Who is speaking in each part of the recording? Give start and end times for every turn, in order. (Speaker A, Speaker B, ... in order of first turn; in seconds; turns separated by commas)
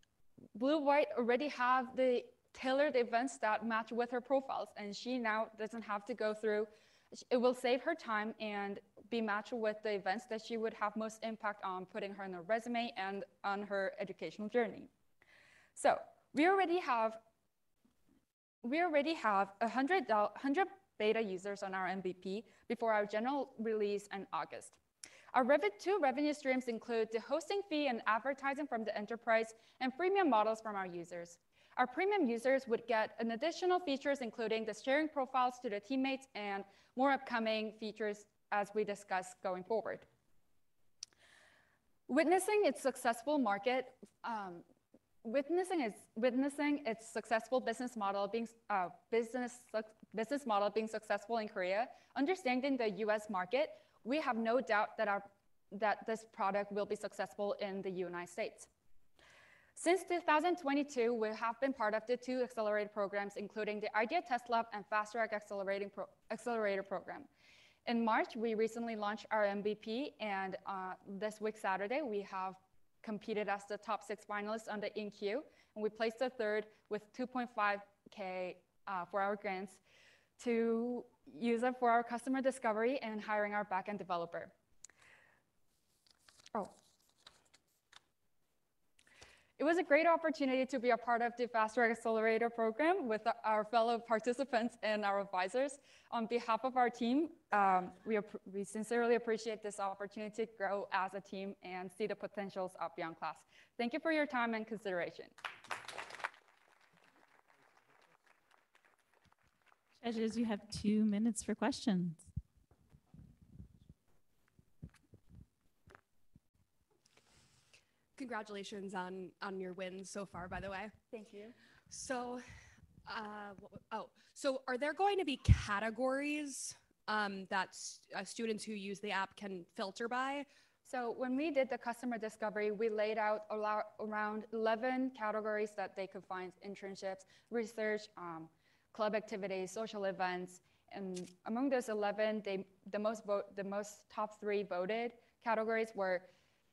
Speaker A: 0.6-14.9, Speaker A: 15.8-17.2, Speaker A: 18.6-24.8, Speaker A: 25.3-40.1, Speaker A: 42.1-44.6, Speaker A: 45.2-58.7, Speaker A: 59.8-67.3, Speaker A: 67.9-79.8, Speaker A: 80.4-84.5, Speaker A: 89.6-105.3, Speaker B: 110.0-112.3, Speaker C: 118.2-121.0, Speaker A: 121.1-121.5, Speaker C: 121.9-122.4, Speaker C: 123.1-130.5, Speaker A: 130.8-146.3